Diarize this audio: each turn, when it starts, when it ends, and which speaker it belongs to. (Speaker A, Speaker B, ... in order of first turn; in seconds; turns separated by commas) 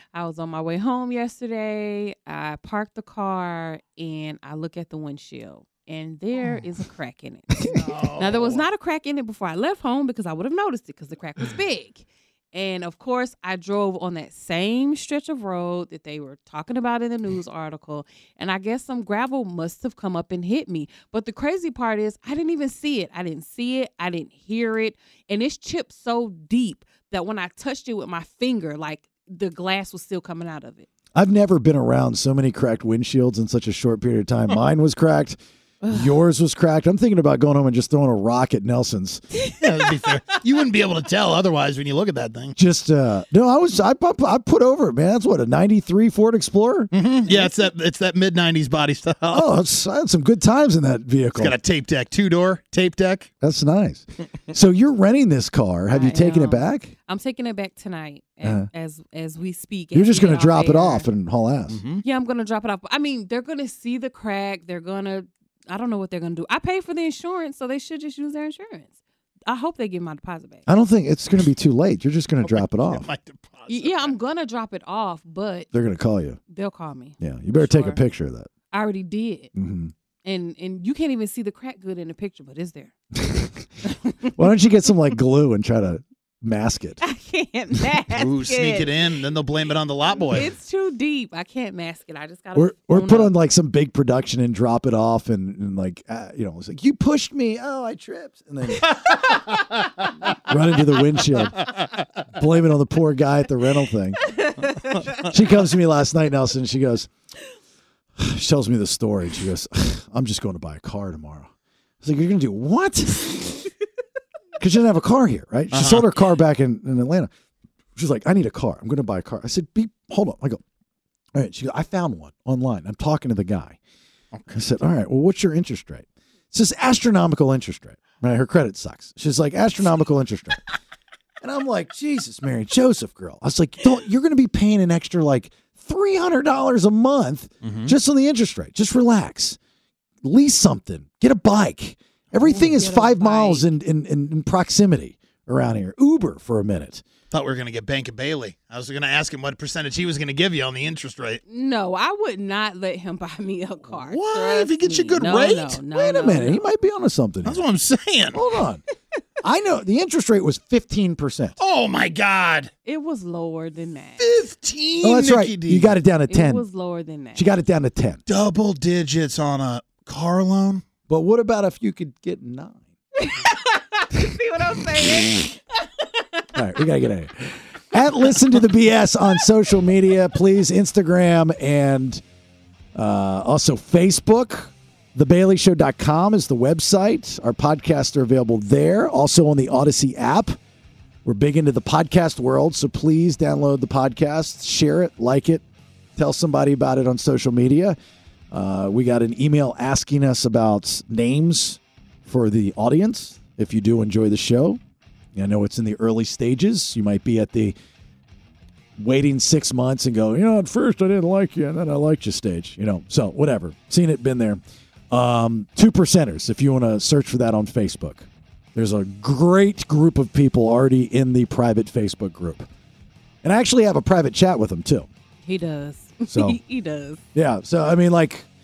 Speaker A: 0.1-30.9, Speaker B: 7.7-8.6, Speaker C: 31.1-39.2, Speaker B: 39.6-42.5, Speaker C: 42.6-46.9, Speaker B: 46.9-49.5, Speaker A: 47.3-47.6, Speaker C: 49.3-51.6, Speaker B: 51.4-53.3, Speaker C: 53.4-56.9, Speaker A: 55.9-61.1, Speaker C: 58.4-58.7, Speaker C: 59.9-61.8, Speaker B: 61.7-62.0, Speaker A: 62.0-69.0, Speaker A: 69.5-70.7, Speaker C: 70.7-73.1, Speaker B: 72.4-74.1, Speaker A: 73.7-75.7, Speaker C: 75.7-76.4, Speaker A: 76.5-78.0, Speaker C: 77.2-78.5, Speaker A: 78.7-79.5, Speaker C: 79.5-79.9, Speaker A: 80.2-82.9, Speaker C: 83.2-83.7, Speaker A: 83.9-84.3, Speaker C: 84.3-87.0, Speaker A: 87.0-88.9, Speaker B: 88.1-90.5, Speaker A: 90.3-93.4, Speaker C: 92.5-99.0, Speaker C: 100.5-101.6, Speaker C: 102.3-104.2, Speaker A: 104.4-104.7, Speaker C: 105.2-107.1, Speaker C: 108.2-111.5, Speaker C: 112.0-113.4, Speaker C: 114.6-117.3, Speaker B: 115.7-116.2, Speaker C: 118.0-120.6, Speaker C: 121.3-123.8, Speaker B: 124.3-124.7, Speaker C: 124.5-130.6, Speaker C: 131.4-139.6, Speaker B: 137.6-137.9, Speaker C: 140.2-147.0, Speaker A: 142.4-143.7, Speaker B: 147.3-151.4, Speaker A: 151.5-156.7, Speaker B: 153.9-155.8, Speaker C: 155.9-157.6, Speaker B: 157.4-158.4, Speaker C: 158.3-158.8, Speaker C: 159.4-161.6, Speaker B: 161.6-162.7, Speaker A: 162.8-164.3, Speaker B: 164.2-165.9, Speaker C: 165.0-166.7, Speaker A: 166.3-167.4, Speaker C: 167.3-168.2, Speaker B: 168.3-170.8, Speaker C: 171.1-172.8, Speaker A: 173.2-175.5, Speaker C: 176.5-182.2, Speaker C: 182.9-190.6, Speaker C: 191.2-195.6, Speaker C: 196.2-198.0, Speaker C: 198.5-204.8, Speaker C: 205.3-207.8, Speaker C: 209.0-222.7, Speaker C: 223.4-225.1, Speaker A: 225.4-227.2, Speaker C: 226.3-226.6, Speaker C: 227.3-228.5